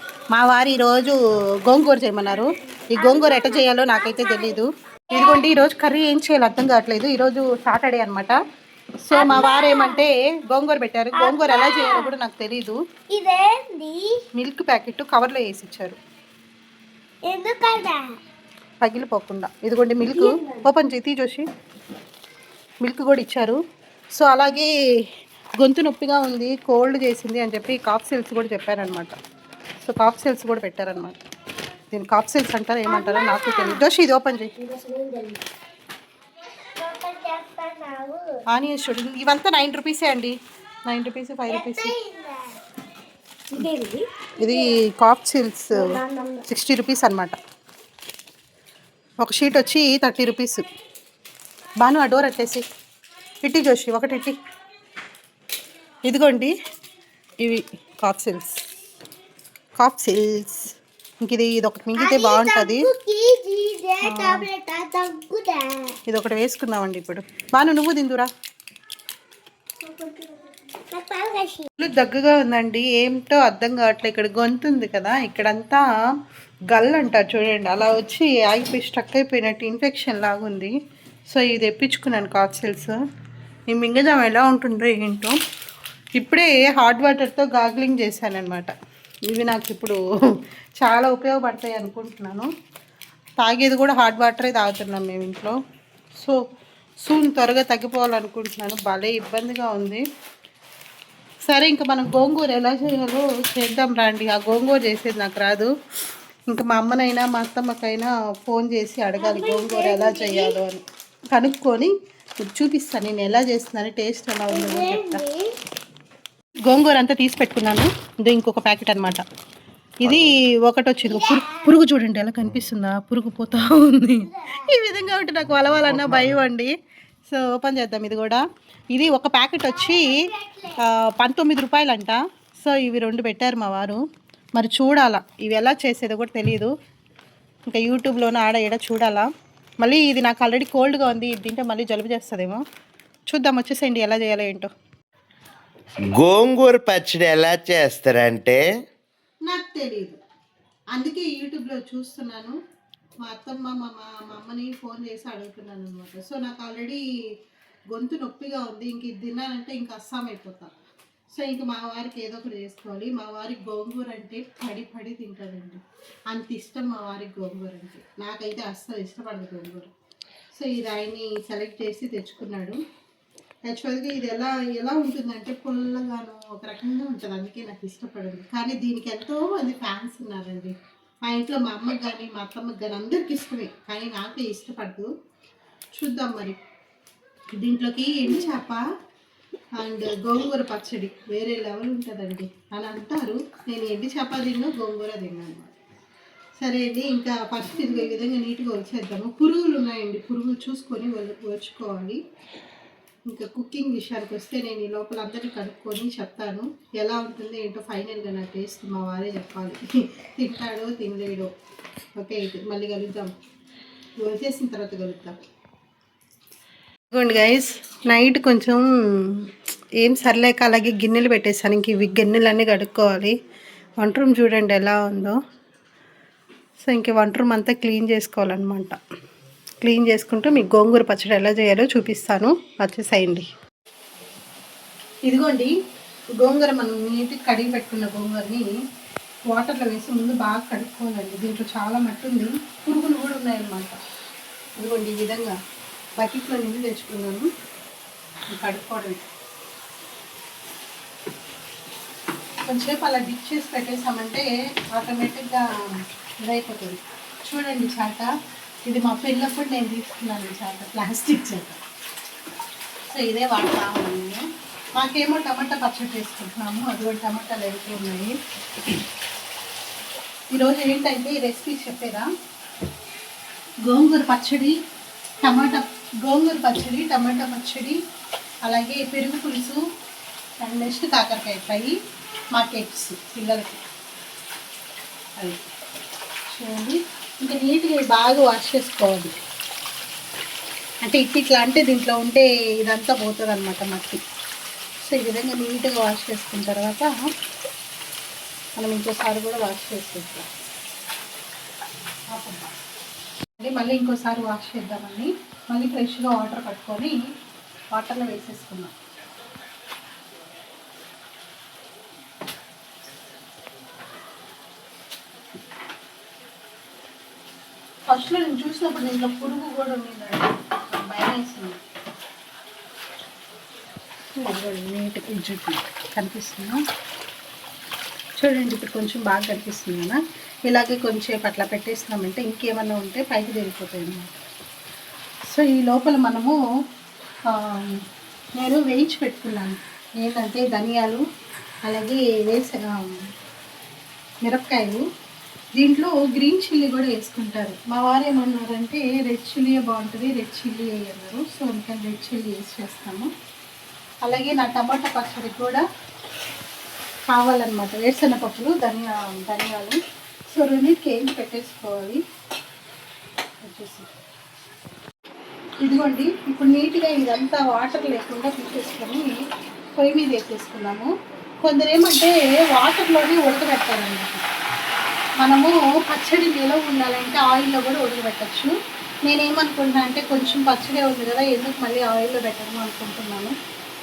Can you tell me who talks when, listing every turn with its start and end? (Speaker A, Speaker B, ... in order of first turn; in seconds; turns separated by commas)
Speaker A: 0.3-8.4, Speaker B: 3.0-4.6, Speaker B: 5.1-5.4, Speaker A: 9.0-12.8, Speaker B: 9.1-10.0, Speaker B: 11.2-12.1, Speaker B: 13.1-14.2, Speaker A: 14.4-16.0, Speaker B: 17.3-18.0, Speaker A: 18.8-21.4, Speaker B: 20.1-20.6, Speaker A: 22.8-23.6, Speaker A: 24.1-24.7, Speaker A: 25.6-29.1, Speaker A: 29.8-31.2, Speaker A: 31.9-34.5, Speaker B: 32.9-33.8, Speaker B: 34.6-35.4, Speaker B: 36.8-38.3, Speaker A: 38.5-40.4, Speaker A: 40.9-41.9, Speaker B: 41.5-42.6, Speaker B: 43.5-44.6, Speaker A: 44.4-45.8, Speaker B: 45.7-46.5, Speaker A: 46.5-47.4, Speaker A: 49.2-50.6, Speaker A: 51.8-52.6, Speaker A: 53.4-54.4, Speaker A: 56.1-56.5, Speaker A: 57.4-58.6, Speaker A: 59.8-62.9, Speaker B: 62.0-66.0, Speaker A: 64.0-64.5, Speaker A: 66.1-68.3, Speaker B: 69.8-71.7, Speaker A: 71.8-75.8, Speaker A: 76.7-80.7, Speaker A: 81.3-83.0, Speaker A: 83.7-85.4, Speaker A: 86.2-88.7, Speaker A: 89.3-90.0, Speaker A: 90.8-92.5, Speaker A: 93.4-95.5, Speaker A: 97.0-100.0, Speaker A: 101.5-105.7, Speaker A: 106.5-115.2, Speaker B: 109.2-110.5, Speaker B: 114.5-115.5, Speaker A: 116.7-119.2, Speaker A: 120.0-126.7, Speaker B: 121.1-121.7, Speaker C: 125.9-126.3, Speaker A: 127.3-130.1, Speaker B: 129.7-130.8, Speaker A: 130.8-134.0, Speaker A: 134.6-136.7, Speaker A: 137.7-139.3, Speaker A: 139.8-142.6, Speaker A: 143.3-144.7, Speaker C: 146.2-148.6, Speaker A: 149.5-150.2, Speaker A: 150.9-152.6, Speaker A: 153.2-157.0, Speaker A: 157.9-160.7, Speaker A: 161.3-169.9, Speaker A: 170.5-172.8, Speaker A: 173.7-185.1, Speaker A: 185.9-186.6, Speaker A: 187.5-188.8, Speaker A: 189.8-195.7, Speaker A: 196.6-202.2, Speaker A: 203.3-211.5, Speaker A: 212.2-213.3, Speaker A: 214.2-215.3, Speaker A: 217.1-219.5, Speaker A: 220.0-223.3, Speaker A: 224.0-225.4, Speaker A: 226.8-229.0, Speaker A: 229.8-233.5, Speaker A: 235.3-235.7, Speaker A: 236.4-238.7, Speaker A: 239.5-244.0, Speaker A: 244.8-245.6, Speaker A: 246.2-247.5, Speaker A: 248.5-249.2, Speaker A: 252.7-258.3, Speaker A: 258.9-261.8, Speaker A: 263.1-264.4, Speaker A: 265.0-268.4, Speaker A: 270.5-272.3, Speaker A: 273.9-274.8, Speaker A: 275.4-278.0, Speaker A: 278.6-279.8, Speaker A: 280.6-281.9, Speaker A: 282.5-283.8, Speaker A: 285.4-285.6, Speaker A: 286.5-289.4, Speaker A: 291.0-294.2, Speaker A: 295.0-297.1, Speaker A: 298.8-300.5, Speaker A: 302.3-302.7, Speaker A: 303.6-307.2, Speaker A: 307.9-308.9, Speaker A: 318.1-321.8, Speaker A: 324.4-326.8, Speaker A: 328.4-334.4, Speaker A: 335.5-336.6, Speaker A: 337.5-338.0, Speaker A: 338.6-341.2, Speaker A: 341.9-343.2, Speaker A: 344.4-345.0, Speaker A: 345.8-353.3, Speaker A: 354.2-355.8, Speaker A: 357.3-360.0, Speaker A: 360.5-362.2, Speaker A: 363.6-364.1, Speaker A: 365.8-369.3, Speaker A: 370.0-371.1, Speaker A: 371.6-374.4, Speaker A: 375.4-378.7, Speaker A: 379.3-383.5